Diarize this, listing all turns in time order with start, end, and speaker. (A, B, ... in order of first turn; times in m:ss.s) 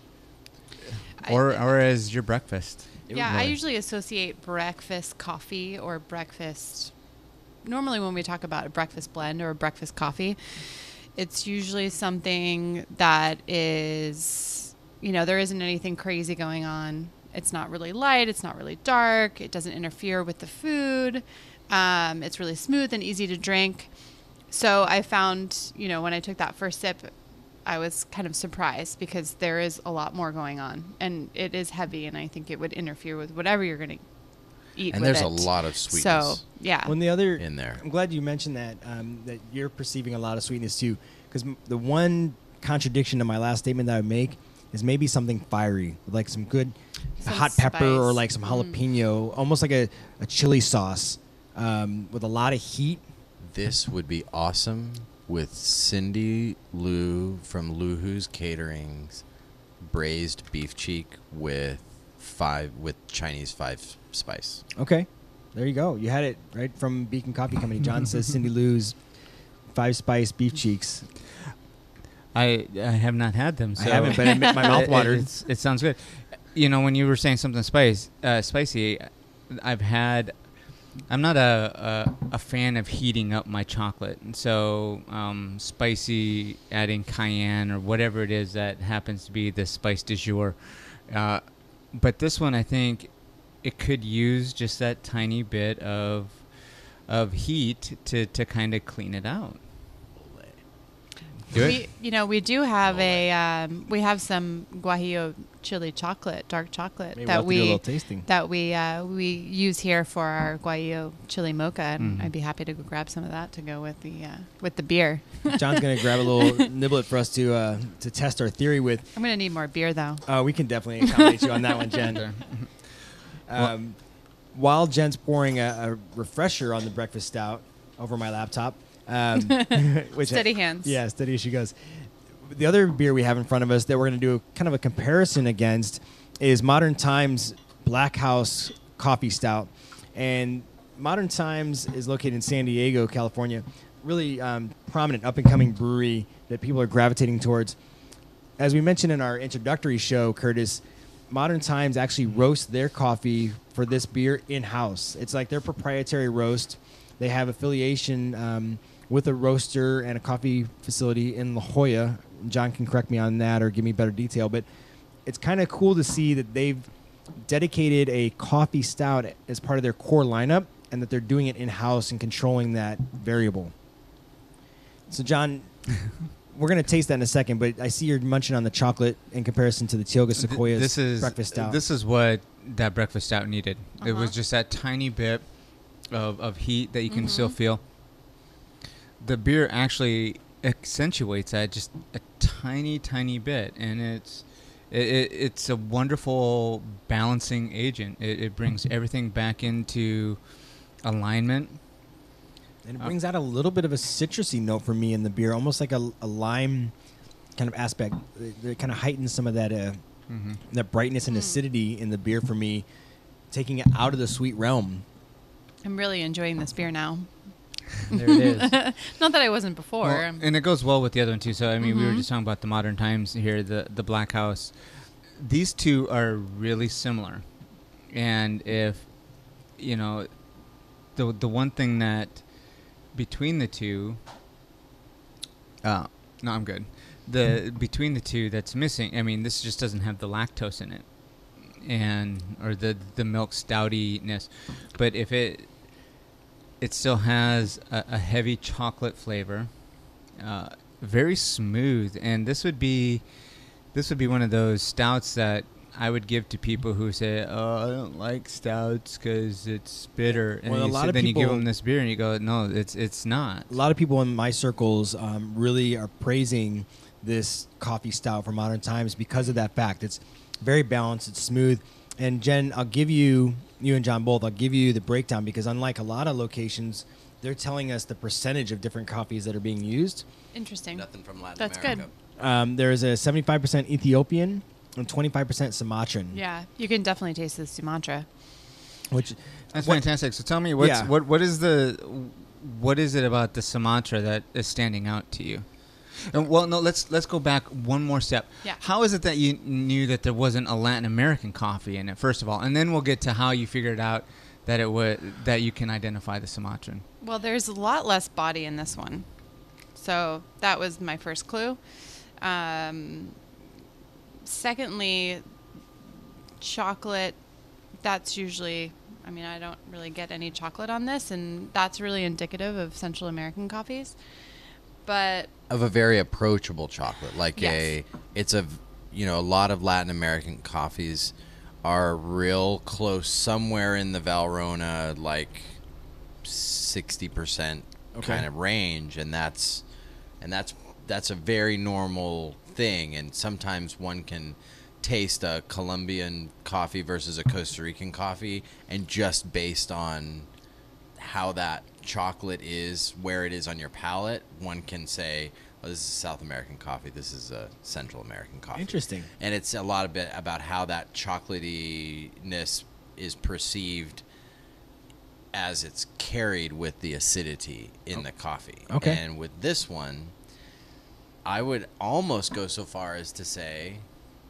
0:00.9-0:03.6 A
0:01.2-0:01.7 B
0:03.1-0:06.9 B
0:07.6-0:23.9 B
0:24.5-0:27.1 B
0:27.6-0:34.0 B
0:34.8-0:37.0 B
0:34.9-0:36.4 C
0:36.9-0:53.0 D
0:37.4-0:37.8 C
0:47.2-0:48.8 B
0:53.4-0:59.2 C
0:59.8-1:04.6 C
1:04.8-1:09.0 D
1:09.7-1:11.1 D
1:12.3-1:20.4 A
1:13.8-1:15.3 D
1:14.2-1:14.7 B
1:21.1-1:33.1 A
1:33.6-1:36.4 A
1:37.1-1:39.6 A
1:40.2-1:40.6 C
1:41.5-1:41.8 A
1:41.5-1:56.7 B
1:42.8-1:43.3 C
1:47.2-1:48.3 D
1:52.0-1:52.3 A
1:55.5-1:59.1 D
1:59.2-2:00.2 B
2:00.3-2:02.3 D
2:01.0-2:02.1 B
2:02.1-2:03.7 A
2:03.5-2:04.0 D
2:04.5-2:27.8 D
2:09.4-2:11.0 B
2:28.6-2:44.6 D
2:45.3-2:53.7 D
2:55.1-2:55.7 D
2:56.5-3:01.8 D
3:00.4-3:05.5 A
3:04.0-3:04.3 B
3:06.1-3:07.8 A
3:07.1-3:07.6 B
3:09.2-3:20.4 A
3:21.0-3:21.8 A
3:22.8-3:26.9 D
3:27.6-3:30.0 D
3:30.3-3:30.6 A
3:30.6-3:32.9 D
3:31.3-3:31.6 B
3:33.5-3:35.0 D
3:35.8-3:37.3 B
3:38.1-3:40.4 B
3:38.1-3:38.8 A
3:40.0-3:44.7 A
3:41.8-3:42.3 B
3:45.4-3:47.4 A
3:48.1-3:49.1 A
3:49.8-3:50.3 A
3:51.2-3:52.4 A
3:53.1-3:54.2 A
3:55.8-4:01.0 A
4:01.8-4:05.7 A
4:06.8-4:09.7 A
4:10.4-4:13.2 A
4:13.9-4:23.7 A
4:20.7-4:21.7 D
4:23.7-4:40.2 D
4:40.5-4:41.1 B
4:40.9-4:42.1 C
4:41.6-4:42.1 B
4:42.4-4:46.4 D
4:46.3-4:48.3 B
4:49.1-4:50.0 D
4:49.7-4:55.7 A
4:50.8-4:51.1 D
4:56.2-5:07.0 A
5:07.2-5:09.3 B
5:10.0-5:11.8 B
5:12.4-5:13.4 B
5:14.4-5:15.4 B
5:16.6-5:17.4 B
5:18.0-5:24.2 B
5:25.0-5:25.5 B
5:25.7-5:35.8 C
5:27.6-5:27.9 B
5:36.4-5:39.8 C
5:38.2-5:38.5 D
5:40.4-5:50.5 C
5:51.2-6:04.2 C
5:58.7-5:59.3 D
6:05.5-6:10.3 C
6:08.9-6:09.2 D
6:11.4-6:14.1 C